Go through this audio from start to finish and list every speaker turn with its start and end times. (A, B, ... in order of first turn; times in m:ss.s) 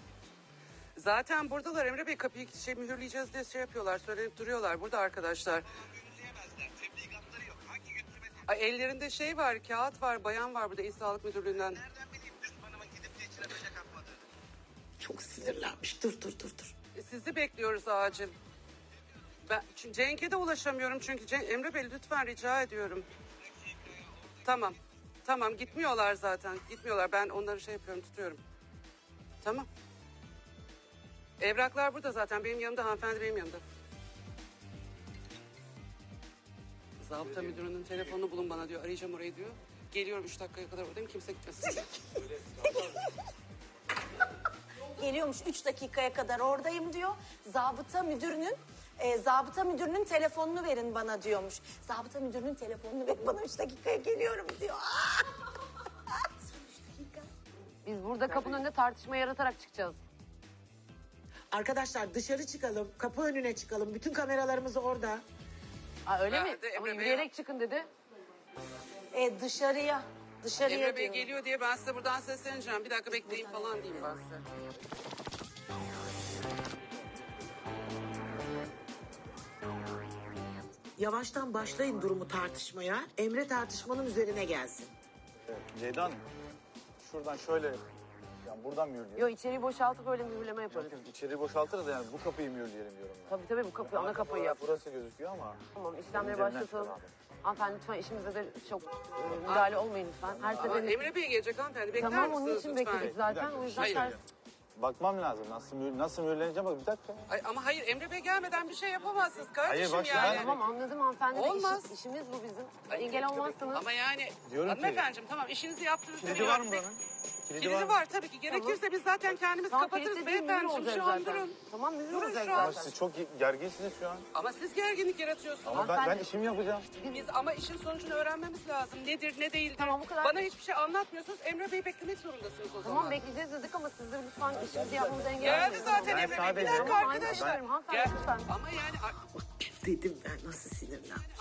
0:01.0-0:05.7 A
0:08.5-0:11.8 A
0:15.0-0:16.7 B
0:17.0-0:18.4 A
0:19.5-0:23.1 A
0:24.4-0:28.4 A
0:29.4-0:29.7 A
0:31.4-0:33.6 A
0:37.0-0:42.0 A
0:42.6-0:43.1 C
0:45.0-0:55.3 C
0:56.6-0:57.2 C
0:57.8-1:00.0 D
1:01.5-1:05.2 B
1:06.1-1:07.9 D
1:06.3-1:07.3 A
1:09.1-1:11.3 C
1:10.6-1:14.4 A
1:13.1-1:14.1 C
1:21.0-1:24.9 B
1:25.5-1:26.2 E
1:27.0-1:27.8 E
1:28.4-1:29.3 E
1:29.2-1:31.0 D
1:30.7-1:37.1 E
1:33.3-1:34.6 D
1:35.7-1:41.1 D
1:39.5-1:39.8 A
1:40.3-1:40.8 E
1:40.6-1:43.2 A
1:42.0-1:44.2 D
1:42.0-1:42.4 E
1:43.0-1:44.2 E
1:43.8-1:44.1 A
1:44.8-1:47.2 E
1:47.3-1:50.5 A
1:49.6-1:50.5 E
1:50.1-1:53.9 D
1:51.3-1:52.0 A
1:52.9-1:56.9 A
1:54.5-1:55.1 E
1:56.2-1:58.0 E
1:57.6-2:01.6 A
1:58.5-1:58.8 D
1:59.7-2:03.0 D
2:02.1-2:02.7 A
2:02.6-2:04.3 E
2:04.3-2:06.2 A
2:05.6-2:06.9 E
2:05.7-2:06.2 D
2:07.0-2:13.2 A
2:09.8-2:10.4 D
2:12.8-2:18.5 D
2:15.4-2:19.2 A
2:15.5-2:17.6 E
2:19.4-2:21.2 B